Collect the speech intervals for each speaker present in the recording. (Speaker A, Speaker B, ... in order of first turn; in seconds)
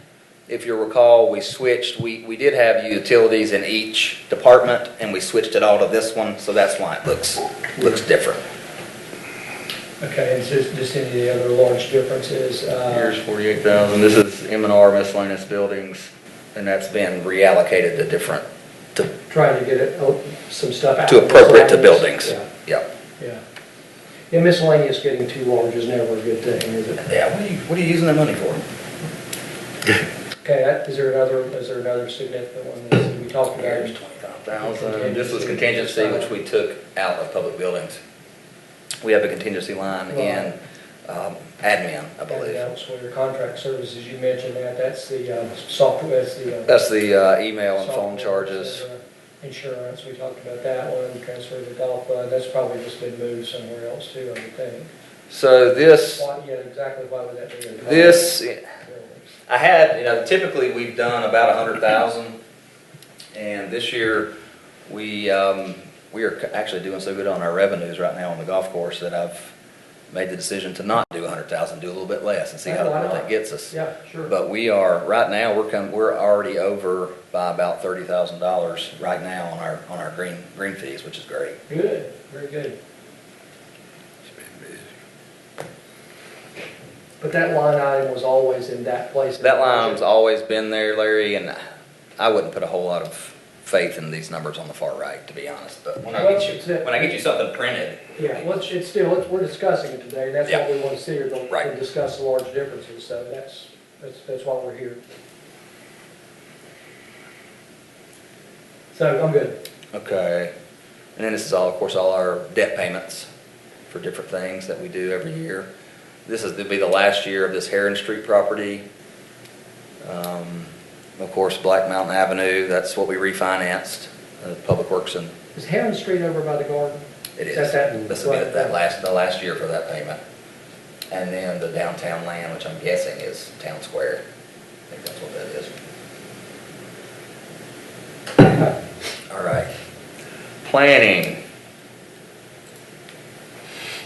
Speaker A: 0.5-8.4, 12.9-18.4, 21.1-22.9, 27.0-28.6, 33.5-38.0, 39.0-42.6, 46.7-48.8, 55.3-56.3, 57.8-58.6, 59.5-62.4, 63.3-64.3, 64.9-69.5, 70.1-73.7, 74.3-81.6, 84.4-84.8, 89.4-91.6, 92.2-98.5, 109.9-110.5, 111.2-113.3, 113.9-115.7, 116.2-118.8, 120.0-125.3, 127.4-130.2, 131.1-134.2, 134.9-135.8, 139.3-139.7, 140.6-141.4
Speaker B: 10.0-13.1, 19.3-22.5, 24.3-27.0, 30.4-34.0, 34.5-36.3, 40.1-40.5, 42.3-46.8, 47.8-54.9, 56.1-58.3, 58.8-59.2, 72.6-74.3, 81.7-82.8, 87.2-90.0, 96.1-97.2, 98.2-105.0, 108.9-109.6, 125.5-128.8